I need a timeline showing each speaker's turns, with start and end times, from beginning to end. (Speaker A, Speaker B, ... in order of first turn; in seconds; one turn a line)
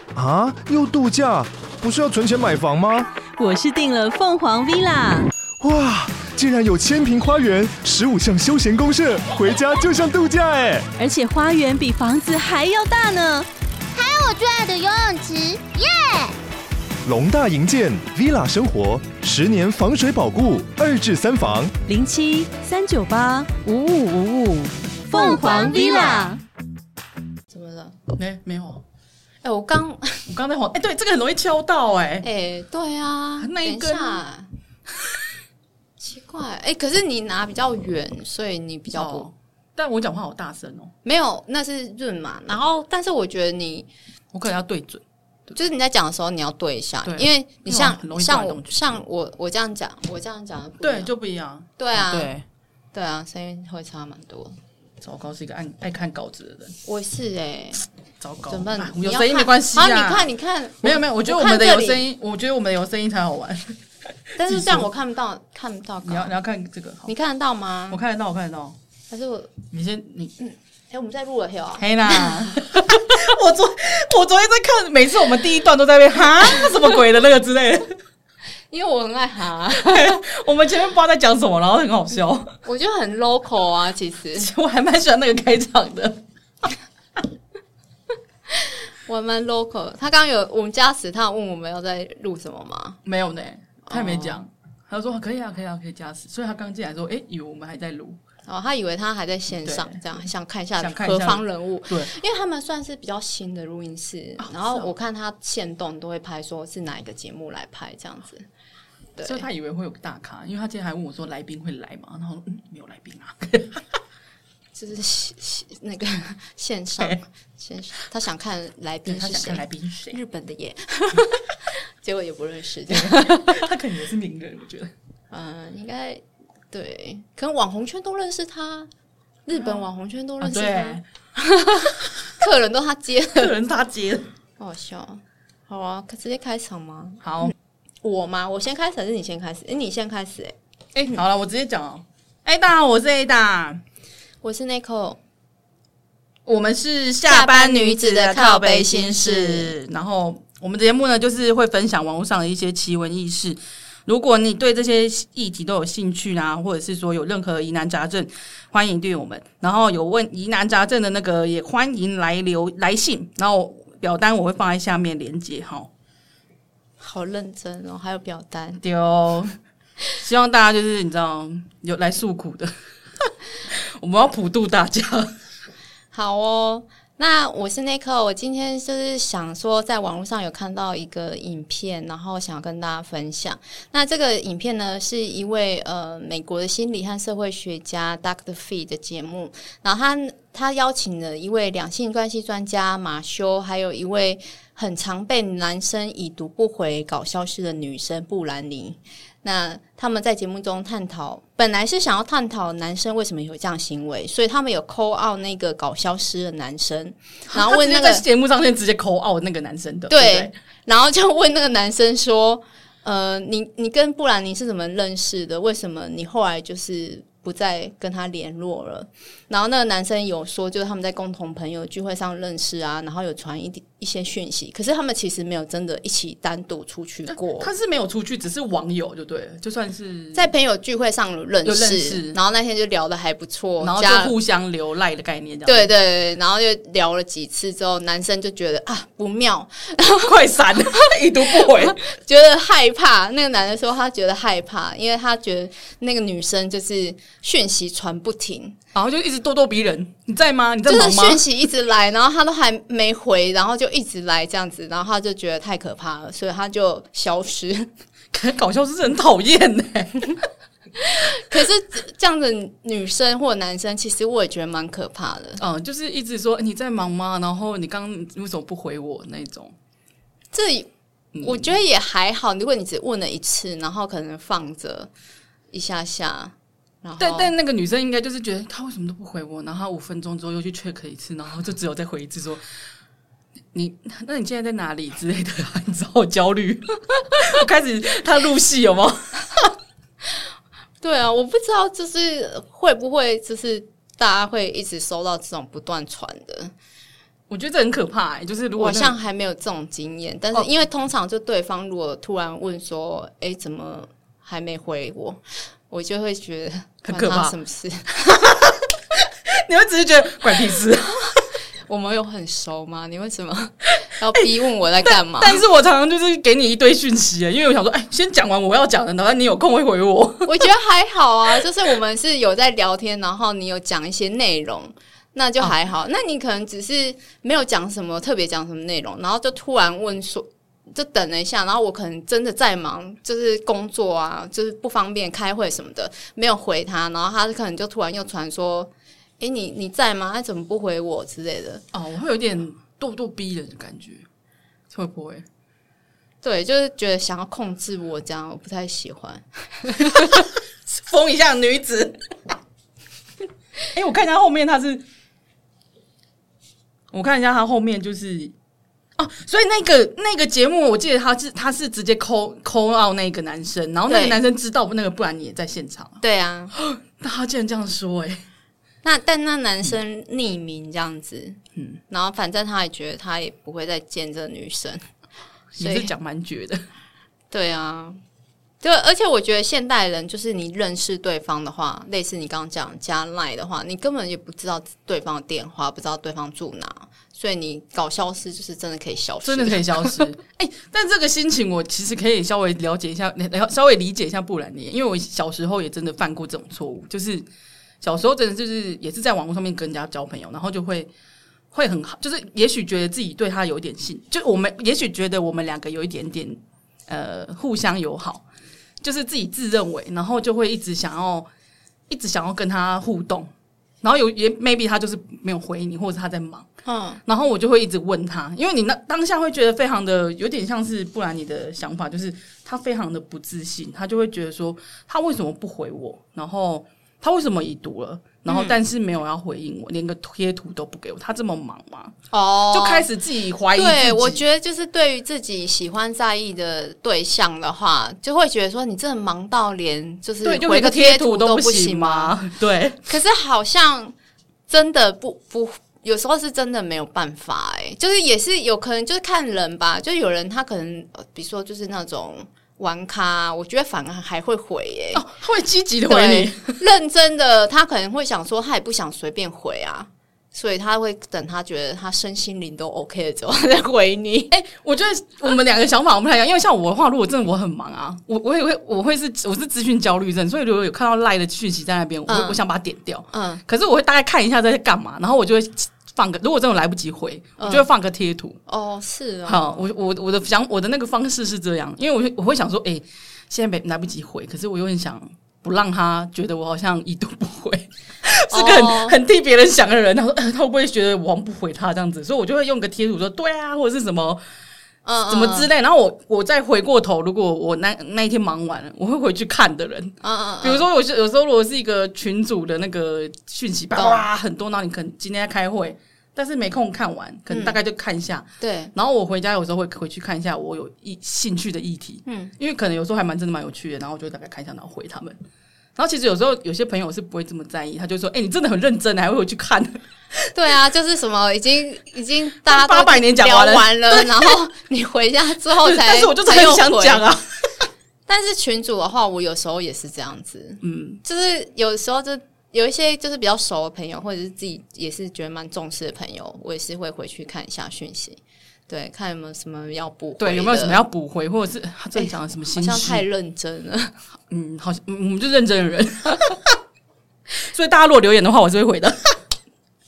Speaker A: 0.1-3.1
Speaker B: 3.4-5.3
Speaker A: 5.6-10.9
Speaker B: 11.0-13.5
Speaker C: 13.9-16.3
Speaker A: 17.0-21.7
Speaker B: 21.9-26.4
Speaker C: 25.1-26.4
Speaker D: 27.5-28.0
Speaker E: 28.2-28.8
Speaker D: 29.4-30.3
Speaker E: 30.3-32.2
Speaker D: 32.2-34.5
Speaker E: 33.4-34.2
Speaker D: 36.0-39.3
Speaker E: 38.9-40.9
Speaker D: 41.0-43.9
Speaker E: 44.3-45.0
Speaker D: 45.5-51.1
Speaker E: 47.0-48.7
Speaker E: 50.8-52.4
Speaker D: 51.8-52.3
Speaker D: 52.9-54.5
Speaker E: 55.0-56.7
Speaker D: 56.8-57.8
Speaker E: 58.2-60.3
Speaker D: 58.5-62.0
Speaker E: 60.8-63.8
Speaker D: 64.4-66.3
Speaker E: 64.4-64.8
Speaker E: 66.0-67.1
Speaker D: 67.1-68.0
Speaker E: 67.9-68.7
Speaker D: 69.1-69.5
Speaker E: 69.7-70.3
Speaker D: 70.4-72.5
Speaker E: 71.8-77.9
Speaker D: 78.7-80.2
Speaker E: 79.8-82.5
Speaker D: 82.6-84.5
Speaker E: 84.4-86.2
Speaker D: 88.6-93.0
Speaker E: 93.0-98.2
Speaker D: 93.9-94.4
Speaker D: 98.5-108.4
Speaker E: 99.6-100.0
Speaker E: 100.8-102.1
Speaker E: 104.4-104.9
Speaker D: 109.2-109.5
Speaker E: 109.2-113.8
Speaker D: 114.8-123.6
Speaker E: 119.1-120.2
Speaker E: 122.9-124.9
Speaker D: 125.3-128.9
Speaker D: 129.5-133.5
Speaker E: 130.4-131.0
Speaker E: 133.3-134.2
Speaker D: 134.6-137.5
Speaker E: 137.2-137.5
Speaker D: 138.0-140.5
Speaker E: 140.9-143.8
Speaker D: 144.4-145.2
Speaker E: 146.4-165.9
Speaker D: 147.3-149.7
Speaker D: 167.0-168.8
Speaker E: 168.8-169.5
Speaker E: 170.2-175.3
Speaker D: 176.1-208.2
Speaker E: 207.5-210.5
Speaker D: 210.1-227.7
Speaker E: 227.6-230.5
Speaker D: 230.3-234.3
Speaker E: 231.6-232.4
Speaker E: 233.8-235.9
Speaker D: 235.7-240.3
Speaker E: 240.2-242.0
Speaker D: 240.9-248.8
Speaker E: 248.9-251.4
Speaker D: 250.9-257.9
Speaker E: 258.3-260.4
Speaker D: 261.0-265.6
Speaker E: 265.6-269.7
Speaker D: 270.5-270.9
Speaker E: 271.3-271.7
Speaker D: 271.4-275.1
Speaker D: 275.7-277.5
Speaker E: 277.2-282.6
Speaker E: 283.7-289.7
Speaker D: 291.0-296.7
Speaker E: 297.5-299.1
Speaker D: 298.8-308.4
Speaker E: 307.0-307.5
Speaker E: 308.4-311.4
Speaker D: 311.9-315.6
Speaker E: 315.0-320.6
Speaker D: 320.4-341.8
Speaker E: 341.9-344.2
Speaker E: 344.9-345.4
Speaker D: 346.4-350.4
Speaker E: 350.1-352.2
Speaker E: 353.9-355.0
Speaker E: 357.1-358.5
Speaker E: 359.2-366.2
Speaker D: 364.1-364.4
Speaker D: 366.2-366.7
Speaker E: 366.8-368.4
Speaker D: 369.0-371.6
Speaker D: 372.1-375.0
Speaker E: 375.8-376.8
Speaker D: 375.8-376.1
Speaker D: 377.5-378.2
Speaker D: 378.8-390.2
Speaker E: 389.4-397.4
Speaker E: 398.0-401.1
Speaker E: 401.7-408.4
Speaker E: 409.0-411.5
Speaker E: 412.1-413.5
Speaker E: 414.0-416.7
Speaker D: 416.9-417.2
Speaker E: 417.2-432.1
Speaker D: 428.5-428.8
Speaker D: 432.3-433.1
Speaker E: 432.7-434.4
Speaker D: 433.7-442.3
Speaker E: 440.4-443.0
Speaker D: 443.1-444.1
Speaker D: 444.7-455.2
Speaker E: 455.1-456.7
Speaker D: 456.1-464.5
Speaker E: 464.5-478.6
Speaker D: 472.3-472.6
Speaker D: 473.3-473.6
Speaker D: 477.6-477.9
Speaker D: 478.7-479.8
Speaker E: 479.4-494.4
Speaker D: 488.5-489.1
Speaker D: 495.0-495.7
Speaker E: 495.3-515.4
Speaker D: 500.2-500.9
Speaker D: 503.9-504.3
Speaker D: 507.5-507.8
Speaker D: 508.6-508.9
Speaker D: 512.2-512.5
Speaker E: 516.0-520.0
Speaker D: 520.5-527.2
Speaker E: 522.6-524.5
Speaker E: 525.8-527.4
Speaker D: 528.3-541.0
Speaker E: 530.8-531.2
Speaker E: 540.4-543.2
Speaker D: 542.1-544.1
Speaker E: 544.5-546.7
Speaker E: 547.7-549.3